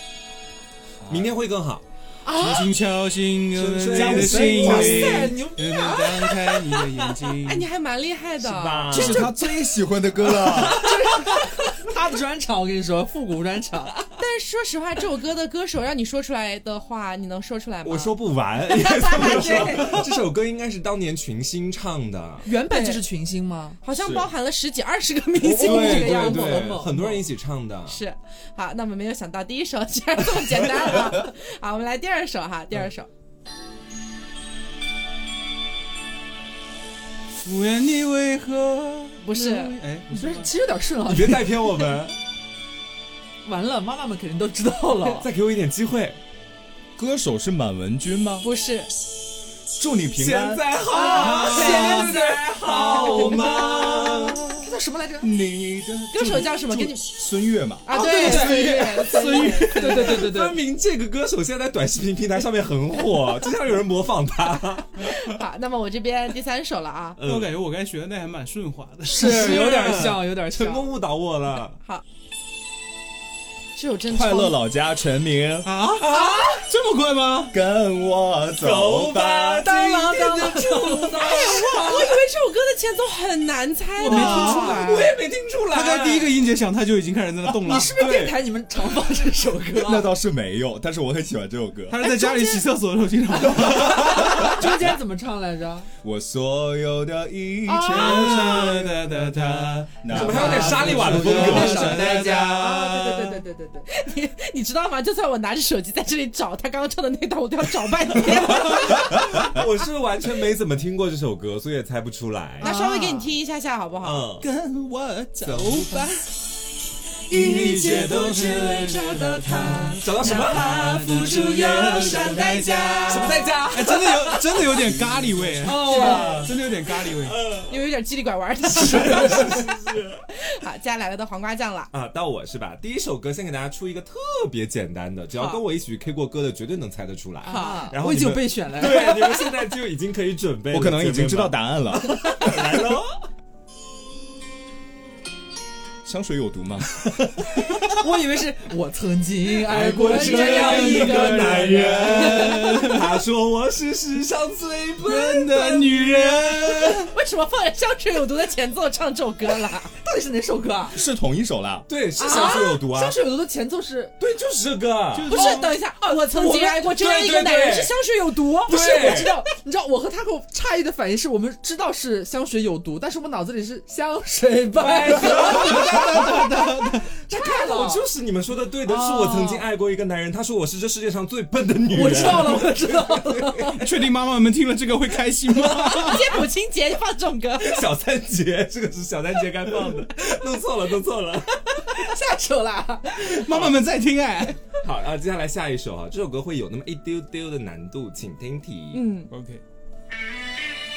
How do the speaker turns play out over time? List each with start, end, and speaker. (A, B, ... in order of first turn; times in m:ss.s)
0:01.0-0:01.4 A
0:01.1-0:01.8 B
0:02.2-0:02.7 C
0:02.3-0:07.7 D
0:03.5-0:05.3 B
0:03.9-0:05.3 A
0:04.6-0:06.2 C
0:07.4-0:08.9 E
0:08.4-0:09.3 B
0:08.9-0:09.5 C
0:08.9-0:10.9 A
0:10.2-0:14.0 C
0:14.2-0:20.1 E
0:17.8-0:22.5 B
0:22.4-0:23.8 C
0:22.6-0:23.0 E
0:23.8-0:26.8 E
0:24.0-0:24.3 A
0:25.4-0:28.0 B
0:25.5-0:27.2 C
0:27.9-0:33.1 E
0:37.4-0:40.5 D
0:39.2-0:39.8 E
0:40.1-0:42.0 C
0:41.0-0:42.1 B
0:43.4-0:45.3 C
0:45.2-0:46.2 B
0:47.0-0:48.5 A
0:48.4-0:48.9 E
0:49.8-0:50.6 A
0:50.2-0:54.4 B
0:50.9-0:55.3 C
0:50.9-0:52.2 E
0:52.8-0:53.7 E
0:53.9-0:57.8 A
0:56.1-0:57.1 E
0:57.8-0:59.8 E
0:57.9-1:00.6 C
0:58.2-0:58.7 B
0:58.2-1:00.1 D
0:59.8-1:04.9 B
1:05.0-1:07.2 E
1:07.2-1:07.5 B
1:07.2-1:09.6 D
1:09.1-1:10.8 C
1:09.2-1:11.8 B
1:13.7-1:14.6 E
1:14.1-1:15.7 A
1:15.6-1:17.5 D
1:16.0-1:16.6 B
1:17.5-1:19.7 A
1:18.6-1:22.2 B
1:19.6-1:25.0 E
1:19.9-1:20.5 C
1:24.0-1:25.1 D
1:24.0-1:25.1 C
1:24.2-1:26.4 B
1:25.7-1:28.2 D
1:27.6-1:30.1 C
1:27.8-1:28.3 A
1:28.0-1:28.3 B
1:29.7-1:32.0 A
1:31.9-1:34.7 D
1:32.0-1:32.6 E
1:33.4-1:35.9 C
1:33.8-1:34.3 A
1:36.0-1:42.4 A
1:37.7-1:38.8 C
1:37.8-1:43.4 D
1:40.1-1:42.0 B
1:40.1-1:43.8 C
1:43.9-1:49.3 E
1:48.6-1:52.7 B
1:52.6-1:54.3 E
1:52.6-1:53.3 C
1:54.0-1:54.4 B
1:54.4-1:56.3 D
1:55.4-1:56.0 B
1:57.3-2:07.5 D
1:57.3-1:58.6 A
2:00.0-2:01.0 B
2:00.2-2:03.4 E
2:03.1-2:07.8 B
2:05.6-2:06.5 C
2:05.7-2:06.4 E
2:07.7-2:09.7 E
2:08.7-2:10.2 B
2:10.4-2:11.9 E
2:11.9-2:23.2 B
2:15.3-2:15.6 E
2:17.4-2:19.5 C
2:17.4-2:17.9 E
2:20.7-2:22.5 A
2:26.0-2:27.0 A
2:27.8-2:32.5 C
2:29.6-2:35.7 B
2:30.1-2:33.2 D
2:31.5-2:32.3 A
2:35.0-2:37.1 D
2:35.5-2:35.9 E
2:36.6-2:39.9 E
2:40.0-2:41.0 C
2:40.9-2:41.9 A
2:41.9-2:43.2 B
2:42.2-2:44.1 C
2:42.2-2:42.8 E
2:44.2-2:45.5 B
2:45.1-2:45.9 D
2:45.3-2:49.5 E
2:46.1-2:47.9 B
2:48.7-2:49.4 B
2:48.7-2:58.0 C
2:54.8-2:56.2 B
2:55.2-2:57.1 D
2:57.3-3:03.7 B
2:58.8-2:59.6 C
3:01.9-3:03.8 C
3:03.7-3:06.4 D
3:05.7-3:07.8 E
3:07.6-3:11.5 B
3:11.8-3:13.3 C
3:13.1-3:14.6 D
3:13.5-3:13.7 B
3:14.8-3:19.0 B
3:18.9-3:19.3 E
3:19.3-3:19.6 D